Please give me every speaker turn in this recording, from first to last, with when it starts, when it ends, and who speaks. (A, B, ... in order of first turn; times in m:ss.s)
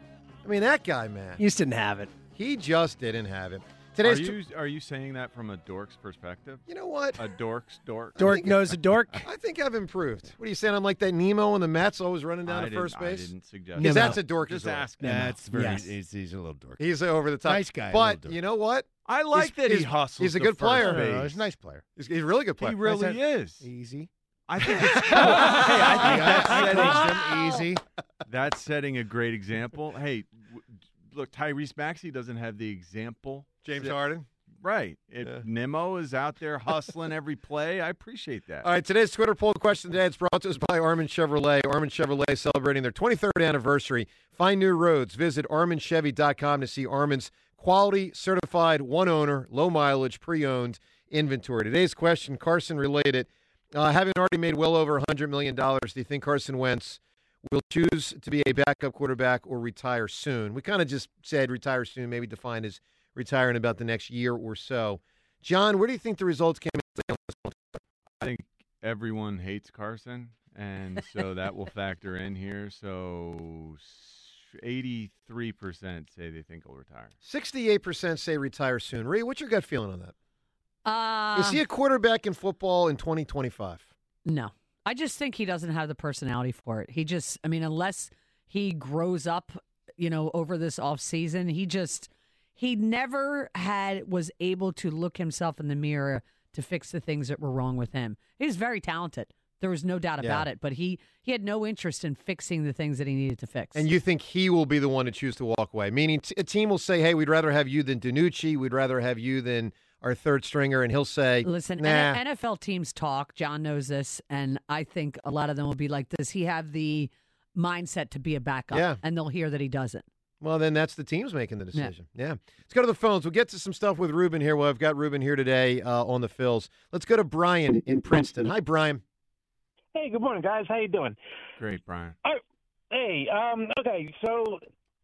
0:00.4-0:01.4 A
0:01.4-0:02.1 B
0:02.4-0:04.4 A
0:04.0-0:06.6 C
0:06.7-0:07.2 A
0:07.2-0:08.4 C
0:08.2-0:08.6 A
0:08.2-0:09.2 B
0:09.2-0:14.9 A
0:12.4-0:15.4 C
0:13.8-0:14.2 B
0:15.0-0:16.8 D
0:15.0-0:15.9 B
0:16.8-0:21.1 A
0:17.4-0:18.4 D
0:19.1-0:21.4 C
0:20.8-0:21.8 D
0:22.0-0:22.9 A
0:22.6-0:23.6 C
0:22.8-0:24.1 D
0:24.5-0:27.2 C
0:24.9-0:27.8 D
0:27.1-0:27.6 E
0:28.3-0:33.9 C
0:33.6-0:34.3 A
0:34.6-0:38.7 C
0:38.6-1:07.6 A
1:08.2-1:17.1 C
1:17.2-1:20.1 A
1:20.8-1:21.6 E
1:21.3-1:23.9 A
1:24.2-1:43.9 E
1:40.2-1:40.4 A
1:43.7-1:52.2 A
1:51.4-2:00.0 E
1:58.7-1:59.0 A
2:00.4-2:09.0 A
2:09.9-2:11.2 F
2:11.6-2:12.2 C
2:12.2-2:14.6 F